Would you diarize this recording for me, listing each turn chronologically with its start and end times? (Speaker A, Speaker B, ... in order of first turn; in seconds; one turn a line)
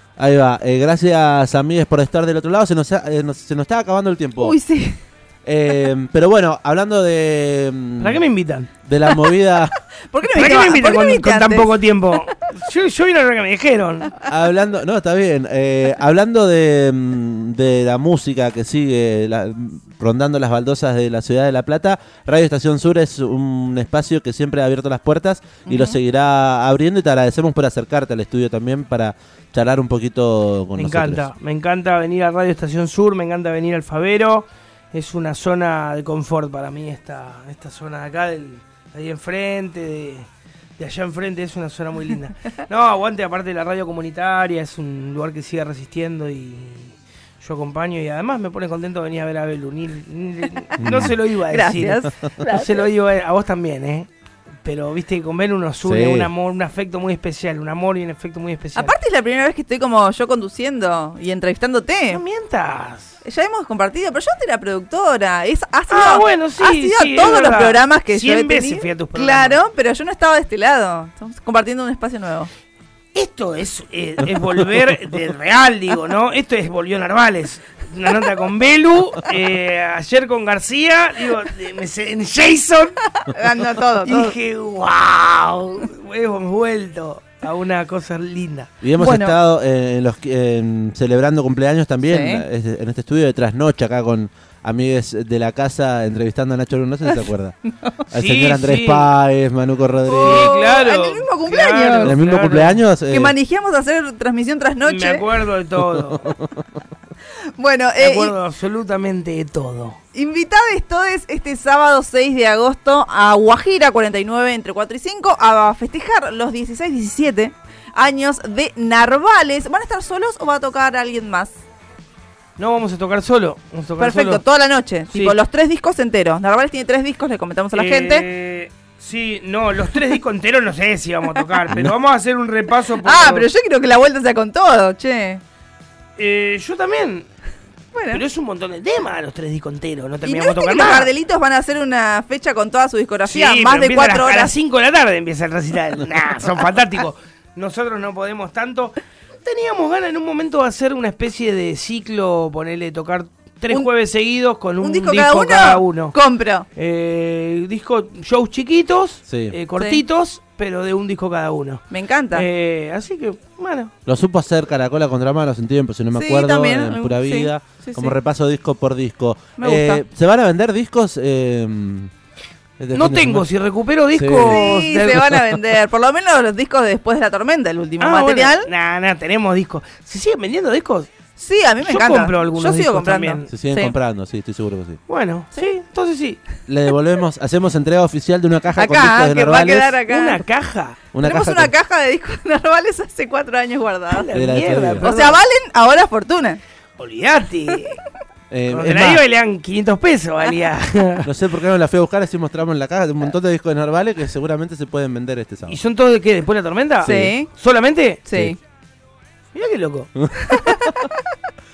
Speaker A: 0.2-4.5
Speaker B: 4.4-5.0
Speaker A: 5.4-8.2
Speaker C: 8.0-8.7
Speaker A: 8.8-9.7
Speaker B: 10.1-11.7
Speaker C: 10.3-14.2
Speaker A: 14.2-31.2
Speaker B: 25.6-26.0
Speaker C: 30.8-40.3
Speaker C: 40.8-54.1
Speaker A: 50.8-51.1
Speaker B: 50.9-52.9
Speaker C: 54.6-58.9
Speaker A: 55.8-56.3
Speaker B: 58.8-62.2
Speaker C: 62.1-63.2
Speaker B: 63.2-72.5
Speaker C: 65.9-69.6
Speaker C: 73.1-83.0
Speaker B: 83.2-84.3
Speaker C: 84.0-88.7
Speaker A: 88.8-97.5
Speaker B: 89.0-89.3
Speaker B: 92.0-92.4
Speaker A: 98.1-100.5
Speaker C: 98.1-99.1
Speaker B: 100.0-102.2
Speaker C: 100.2-102.8
Speaker A: 102.0-103.3
Speaker B: 103.1-105.2
Speaker C: 104.8-106.3
Speaker A: 105.8-106.6
Speaker B: 107.6-108.3
Speaker C: 108.0-110.0
Speaker B: 110.1-121.5
Speaker C: 122.6-124.4
Speaker B: 124.0-128.2
Speaker C: 127.7-133.5
Speaker B: 133.0-135.4
Speaker C: 136.2-137.3
Speaker B: 137.9-138.2
Speaker C: 138.1-141.1
Speaker B: 140.2-144.5
Speaker C: 143.2-156.1
Speaker B: 154.8-156.7
Speaker C: 156.7-163.9
Speaker A: 159.3-159.5
Speaker B: 159.8-160.0
Speaker B: 161.9-162.4
Speaker A: 164.1-172.1
Speaker B: 166.1-168.2
Speaker B: 169.6-170.0
Speaker A: 172.8-173.4
Speaker C: 172.9-175.3
Speaker A: 174.1-174.6
Speaker B: 174.4-178.7
Speaker C: 178.0-181.1
Speaker B: 181.4-183.9
Speaker C: 181.8-183.5
Speaker A: 183.5-185.0
Speaker C: 185.1-186.4
Speaker A: 186.7-189.9
Speaker B: 188.8-190.4
Speaker C: 190.1-191.0
Speaker A: 191.1-191.7
Speaker B: 191.2-194.3
Speaker C: 194.1-195.4
Speaker A: 194.3-195.1
Speaker B: 195.0-196.6
Speaker C: 197.0-198.0
Speaker A: 198.5-199.2
Speaker C: 198.7-201.3
Speaker A: 201.2-205.8
Speaker C: 205.7-208.2
Speaker A: 207.0-207.3
Speaker B: 207.0-207.5
Speaker B: 208.2-208.6
Speaker C: 209.5-210.6
Speaker B: 210.4-211.2